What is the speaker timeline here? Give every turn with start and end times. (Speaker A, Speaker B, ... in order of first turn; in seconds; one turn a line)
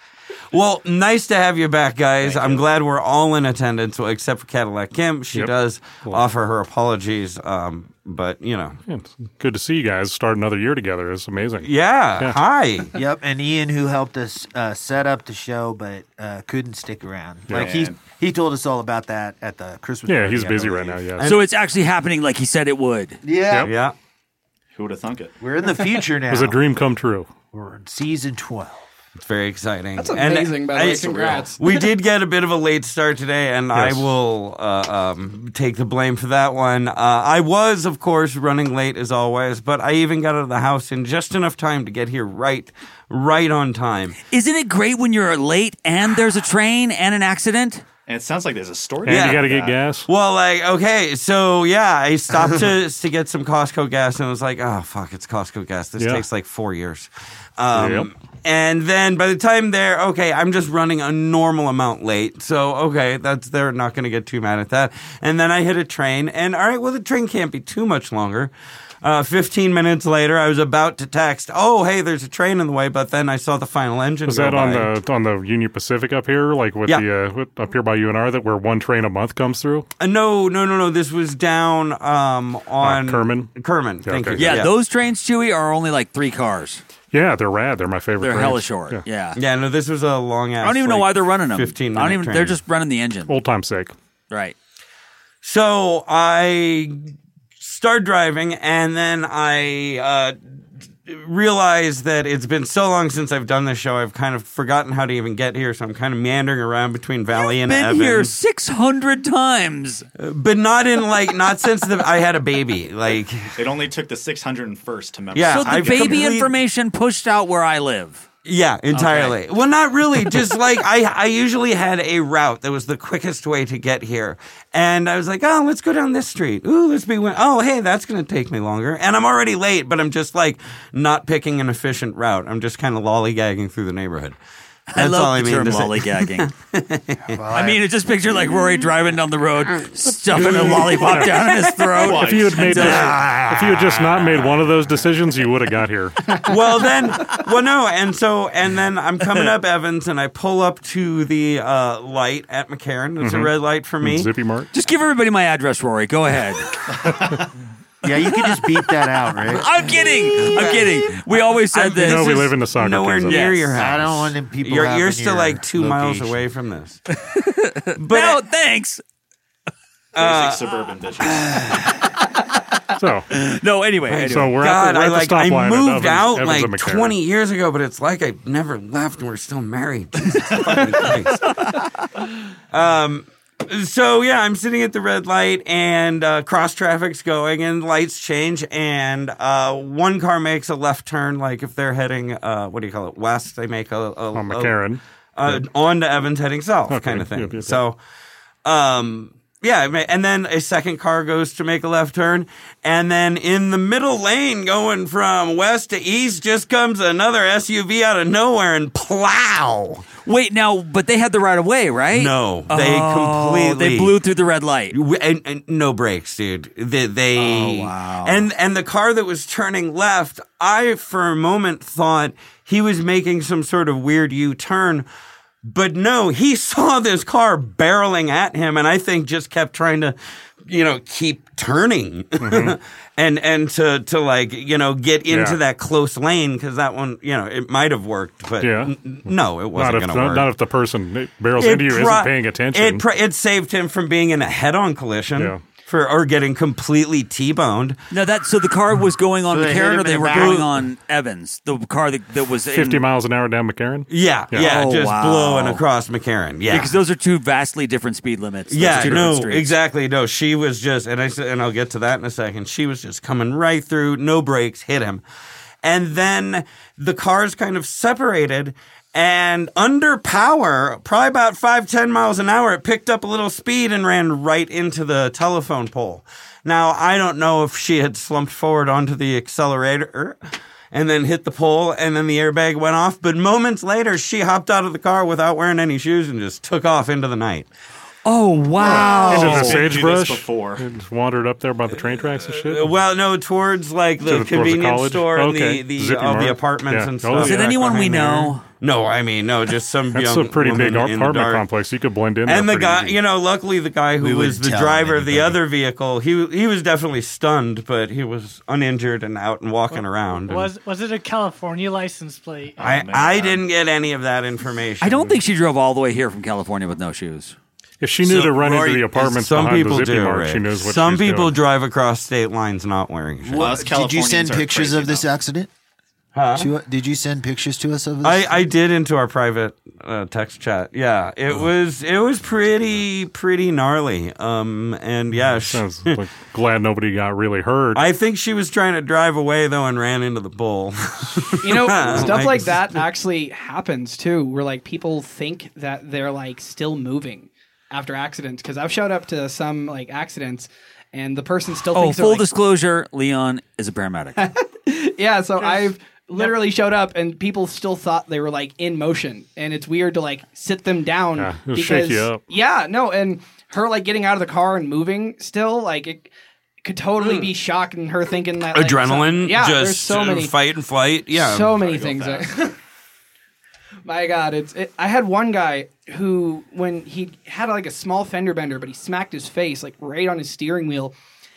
Speaker A: 0.5-8.8
Speaker B: 2.2-2.6
Speaker C: 5.3-6.2
Speaker C: 8.9-12.4
Speaker A: 11.6-12.9
Speaker D: 12.9-21.1
Speaker B: 17.5-18.0
Speaker C: 20.1-21.3
Speaker E: 21.2-23.2
Speaker D: 23.2-23.7
Speaker A: 23.6-23.9
Speaker B: 24.7-25.4
Speaker D: 25.4-26.6
Speaker C: 26.3-27.3
Speaker D: 27.5-28.8
Speaker A: 29.2-44.2
Speaker F: 30.0-31.9
Speaker C: 33.7-34.1
Speaker E: 44.3-47.8
Speaker B: 48.1-49.8
Speaker C: 49.0-50.1
Speaker A: 49.1-49.5
Speaker A: 50.1-74.9
Speaker C: 56.0-56.2
Speaker C: 57.7-58.1
Speaker C: 74.2-79.9
Speaker A: 80.0-84.7
Speaker C: 82.8-83.5
Speaker C: 84.0-84.7
Speaker E: 84.4-86.8
Speaker C: 87.1-89.0
Speaker E: 88.2-89.4
Speaker A: 89.3-92.6
Speaker E: 90.6-93.3
Speaker C: 93.3-94.0
Speaker E: 94.3-94.5
Speaker A: 95.4-100.4
Speaker A: 101.1-108.3
Speaker E: 107.3-110.1
Speaker A: 110.2-113.6
Speaker B: 113.6-116.3
Speaker A: 115.3-116.5
Speaker E: 115.5-118.2
Speaker A: 118.5-134.3
Speaker E: 118.9-119.3
Speaker E: 134.9-136.5
Speaker A: 134.9-137.4
Speaker D: 137.3-137.8
Speaker E: 137.5-143.3
Speaker C: 140.3-141.5
Speaker A: 140.4-144.6
Speaker B: 142.0-142.9
Speaker C: 142.0-146.4
Speaker A: 146.3-154.3
Speaker C: 153.2-154.7
Speaker E: 154.7-156.8
Speaker D: 158.0-161.1
Speaker E: 158.3-158.9
Speaker E: 159.5-162.5
Speaker A: 160.4-160.8
Speaker A: 161.7-167.0
Speaker C: 161.9-163.5
Speaker E: 163.3-163.8
Speaker D: 163.8-166.4
Speaker E: 167.2-169.0
Speaker A: 168.0-168.4
Speaker A: 170.2-170.7
Speaker B: 170.2-171.5
Speaker C: 172.9-173.3
Speaker E: 173.3-174.6
Speaker C: 174.1-177.1
Speaker A: 174.6-198.0
Speaker C: 194.3-195.7
Speaker C: 196.9-197.8
Speaker A: 198.7-210.1
Speaker E: 210.2-215.0
Speaker A: 212.1-214.1
Speaker A: 214.9-225.1
Speaker E: 217.3-218.5
Speaker A: 225.6-240.5
Speaker C: 232.4-232.8
Speaker C: 235.3-235.6
Speaker C: 238.6-238.9
Speaker C: 239.7-243.0
Speaker A: 241.6-248.0
Speaker C: 245.3-245.6
Speaker E: 248.1-253.1
Speaker D: 249.5-250.7
Speaker A: 250.3-250.7
Speaker C: 252.7-254.7
Speaker A: 254.1-257.0
Speaker E: 254.5-255.8
Speaker E: 256.7-259.8
Speaker A: 258.7-265.2
Speaker C: 258.9-259.3
Speaker A: 265.8-280.4
Speaker A: 280.9-287.7
Speaker E: 288.2-289.9
Speaker B: 288.8-290.8
Speaker C: 289.0-292.9
Speaker A: 292.5-301.7
Speaker C: 294.2-298.6
Speaker E: 297.4-298.6
Speaker C: 300.1-303.2
Speaker A: 302.4-310.7
Speaker D: 304.2-305.6
Speaker G: 310.5-312.8
Speaker B: 312.8-313.6
Speaker A: 312.8-315.4
Speaker E: 315.0-317.6
Speaker C: 318.0-321.6
Speaker D: 318.2-319.4
Speaker A: 319.3-323.8
Speaker D: 323.4-325.7
Speaker B: 323.6-325.3
Speaker A: 326.4-326.7
Speaker D: 326.5-328.7
Speaker A: 328.2-336.2
Speaker C: 335.7-338.0
Speaker A: 337.9-342.8
Speaker F: 341.6-352.5
Speaker E: 351.9-354.4
Speaker F: 354.4-366.3
Speaker G: 355.6-356.6
Speaker C: 361.4-362.4
Speaker F: 366.8-370.5
Speaker A: 368.7-371.8
Speaker F: 371.3-372.8
Speaker B: 371.8-372.5
Speaker F: 374.1-381.1